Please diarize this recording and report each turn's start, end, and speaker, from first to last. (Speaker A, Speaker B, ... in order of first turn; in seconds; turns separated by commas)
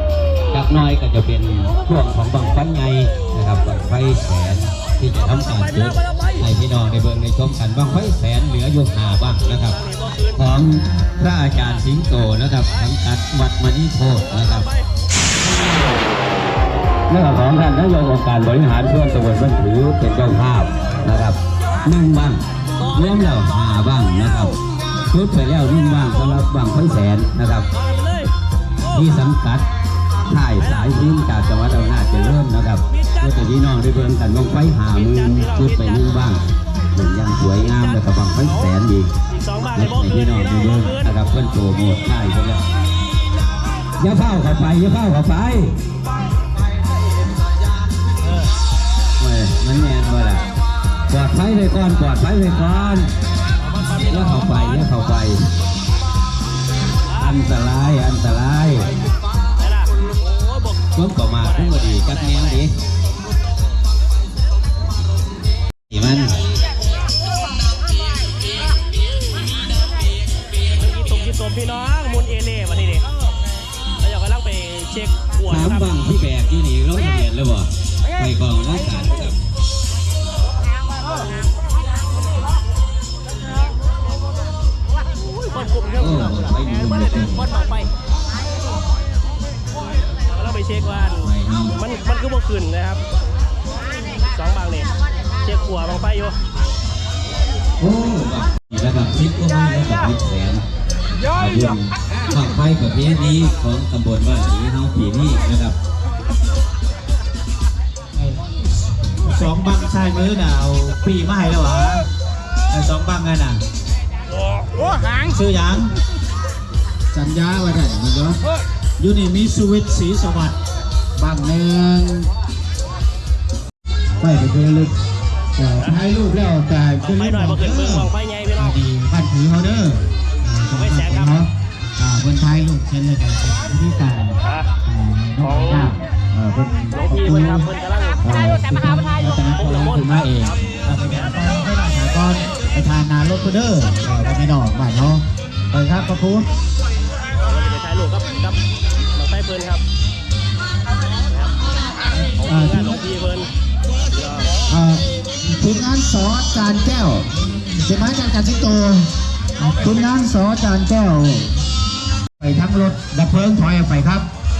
Speaker A: 0.5-9.8, Speaker B: 5.3-6.5, Speaker B: 9.7-10.5, Speaker A: 10.3-14.7, Speaker A: 17.1-27.7, Speaker B: 22.8-23.4, Speaker B: 27.8-28.3, Speaker A: 28.9-29.7, Speaker A: 30.3-39.1, Speaker B: 32.9-33.5, Speaker B: 34.9-36.3, Speaker B: 37.6-38.7, Speaker B: 39.3-41.2, Speaker A: 39.7-42.6, Speaker A: 44.0-45.8, Speaker B: 48.2-48.5, Speaker A: 49.2-50.4, Speaker A: 51.1-53.1, Speaker B: 53.6-54.9, Speaker A: 53.9-55.5, Speaker B: 57.1-57.4, Speaker A: 57.2-58.9, Speaker B: 59.6-60.8, Speaker A: 60.9-62.7, Speaker B: 61.4-62.6, Speaker A: 65.9-66.3, Speaker B: 70.7-73.1, Speaker B: 74.0-75.9, Speaker A: 75.4-79.4, Speaker B: 85.2-87.9, Speaker A: 86.0-87.5, Speaker B: 90.2-93.0, Speaker A: 91.2-91.7, Speaker B: 94.2-94.9, Speaker B: 95.4-96.3, Speaker A: 97.8-100.6, Speaker A: 101.3-105.8, Speaker C: 108.1-108.4, Speaker C: 109.2-112.0, Speaker C: 112.7-113.6, Speaker C: 115.2-115.9, Speaker C: 117.1-118.4, Speaker C: 119.0-120.5, Speaker C: 121.2-122.3, Speaker C: 124.2-125.0, Speaker C: 125.6-137.7, Speaker B: 125.8-126.0, Speaker B: 127.0-128.8, Speaker B: 130.7-131.4, Speaker B: 134.4-134.7, Speaker B: 135.4-135.9, Speaker B: 136.9-138.2, Speaker C: 138.2-146.5, Speaker B: 139.6-140.6, Speaker B: 147.4-148.6, Speaker B: 149.2-149.8, Speaker B: 151.3-151.5, Speaker C: 152.2-153.0, Speaker B: 152.3-153.5, Speaker B: 154.1-154.5, Speaker C: 154.7-161.5, Speaker C: 162.4-164.3